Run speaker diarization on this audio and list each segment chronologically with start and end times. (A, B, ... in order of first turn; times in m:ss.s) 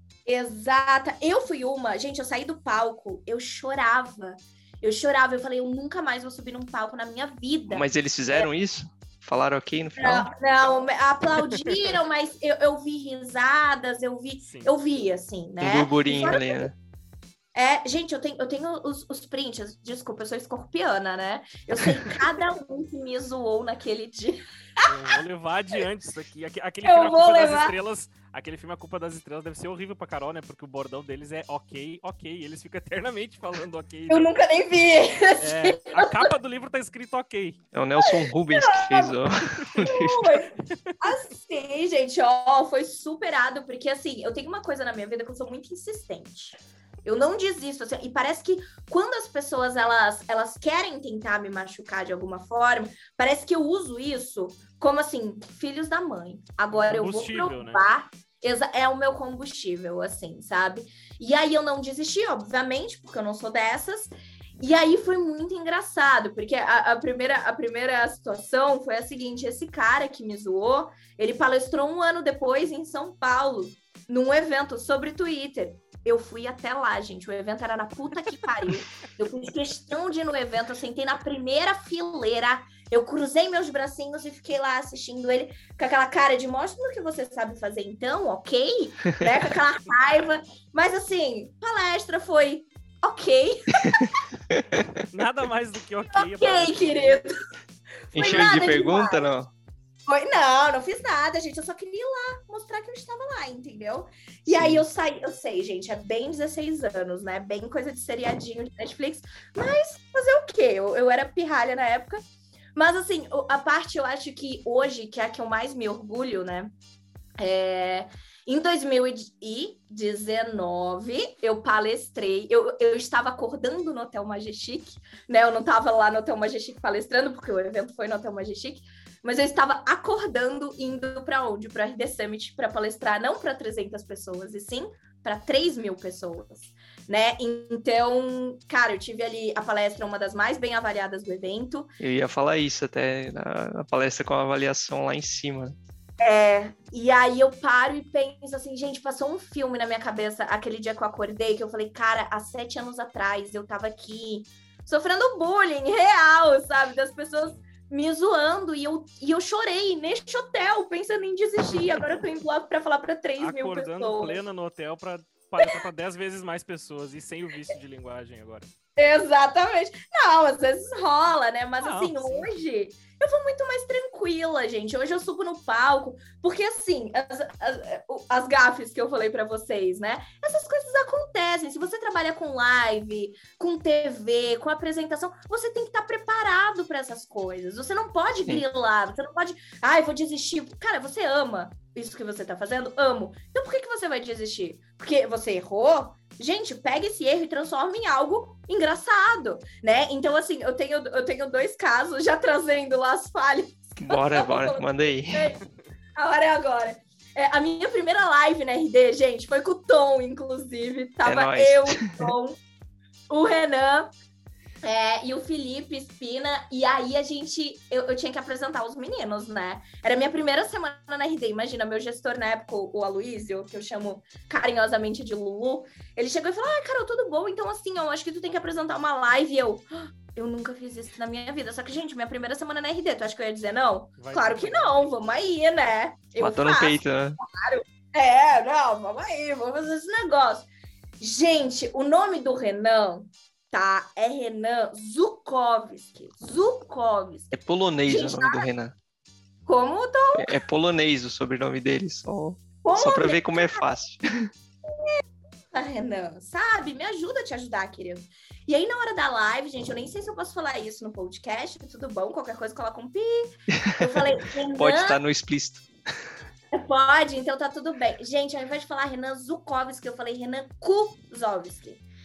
0:00.2-0:08.5 A
0:07.7-0:10.3 B
0:10.0-0:16.7 A
0:11.5-0:12.0 C
0:14.4-0:14.7 C
0:15.6-0:16.7 B
0:17.5-0:24.4 A
0:24.8-0:34.3 C
0:26.8-0:27.7 A
0:34.1-0:36.3 A
0:35.4-0:37.6 C
0:37.7-0:40.3 B
0:38.1-0:39.2 A
0:39.8-1:34.1 A
0:56.7-0:57.9 C
1:34.5-1:35.0 B
1:35.1-1:37.2 C
1:36.1-1:37.3 A
1:38.1-1:39.4 A
1:38.1-1:39.5 B
1:40.1-1:52.2 A
1:44.6-1:44.8 B
1:52.7-1:56.7 A
1:57.4-2:21.9 A
2:22.0-2:25.8 B
2:26.2-2:44.4 A
2:43.4-2:48.7 C
2:49.0-3:25.6 A
2:51.8-2:52.5 C
3:24.0-3:25.5 B
3:26.2-3:32.6 A
3:31.2-3:32.3 B
3:33.3-3:34.1 A
3:34.8-4:00.7 A
3:54.2-3:55.1 C
3:56.4-3:57.4 B
4:01.2-4:08.7 A
4:07.5-4:08.9 B
4:09.6-4:10.6 A
4:10.4-4:14.5 B
4:12.8-4:13.8 A
4:14.9-4:15.1 A
4:15.7-4:25.2 A
4:23.8-4:24.2 B
4:24.8-4:25.8 B
4:26.7-4:32.0 A